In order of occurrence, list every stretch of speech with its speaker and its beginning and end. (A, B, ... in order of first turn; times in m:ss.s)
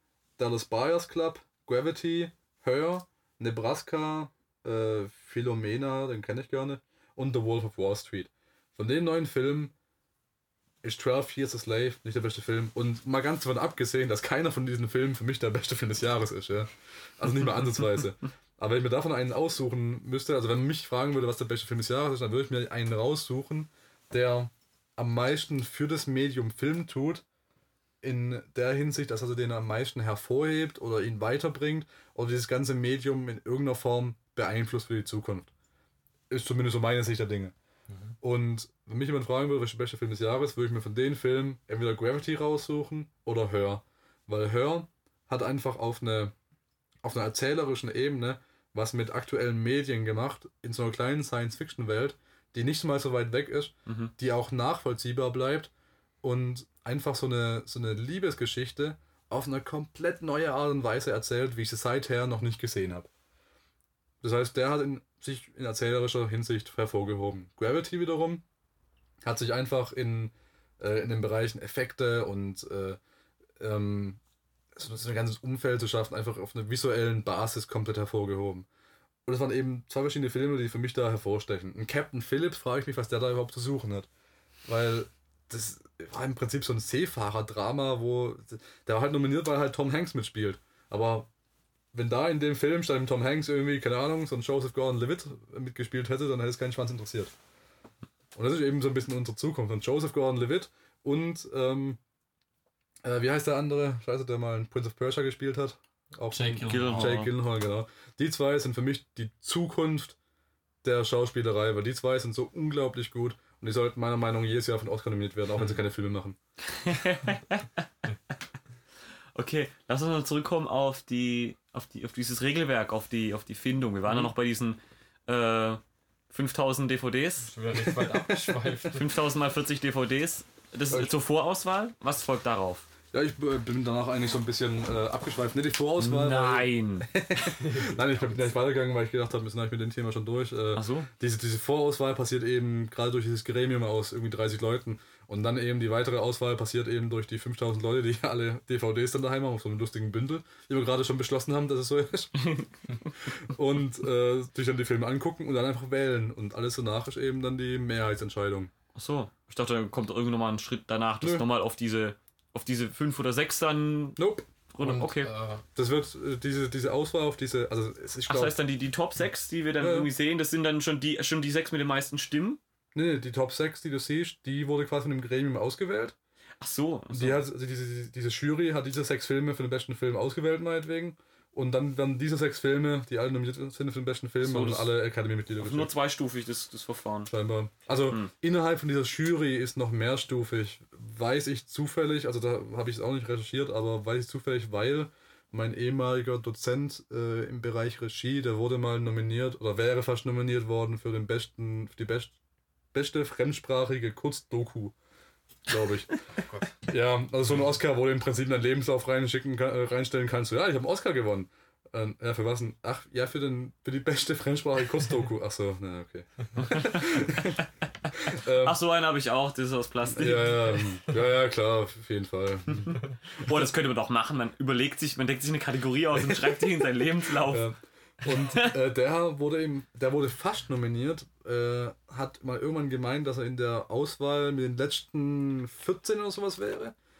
0:00.4-0:09.7 A
0:10.8-0:27.2 A
0:28.0-0:35.5 A
0:36.3-0:37.5 A
0:37.9-0:38.2 B
0:38.2-0:46.3 A
0:47.0-0:55.7 A
0:53.8-0:54.1 C
0:56.2-1:03.1 A
1:04.2-1:08.4 A
1:09.2-1:13.0 A
1:13.6-1:14.2 A
1:14.7-1:18.7 A
1:19.2-1:24.1 A
1:24.7-1:31.3 A
1:31.9-1:37.3 A
1:38.3-1:42.0 A
1:43.0-1:50.2 A
1:46.3-1:47.3 B
1:46.6-1:47.3 C
1:50.8-1:56.4 A
1:56.7-1:57.8 C
1:59.3-2:07.5 C
2:07.4-2:09.1 B
2:08.9-2:12.9 C
2:13.1-2:32.3 A
2:16.0-2:17.1 C
2:17.6-2:18.0 B
2:20.7-2:21.1 C
2:32.4-2:33.3 C
2:33.2-2:38.7 A
2:38.9-2:45.3 C
2:44.2-2:44.5 A
2:44.8-2:45.6 B
2:45.8-2:48.6 A
2:48.3-2:52.6 C
2:49.8-2:50.1 A
2:52.9-2:56.2 A
2:56.6-2:57.4 C
2:57.1-3:05.9 A
3:04.4-3:04.9 C
3:05.6-3:07.3 C
3:07.3-3:22.3 A
3:22.9-3:24.9 A
3:25.7-3:26.1 A
3:26.4-3:26.8 B
3:26.8-3:38.8 A
3:36.6-3:37.1 C
3:38.6-3:40.8 C
3:40.1-3:43.0 A
3:42.8-3:47.7 C
3:46.2-3:46.6 A
3:47.4-3:56.9 A
3:48.2-3:48.8 C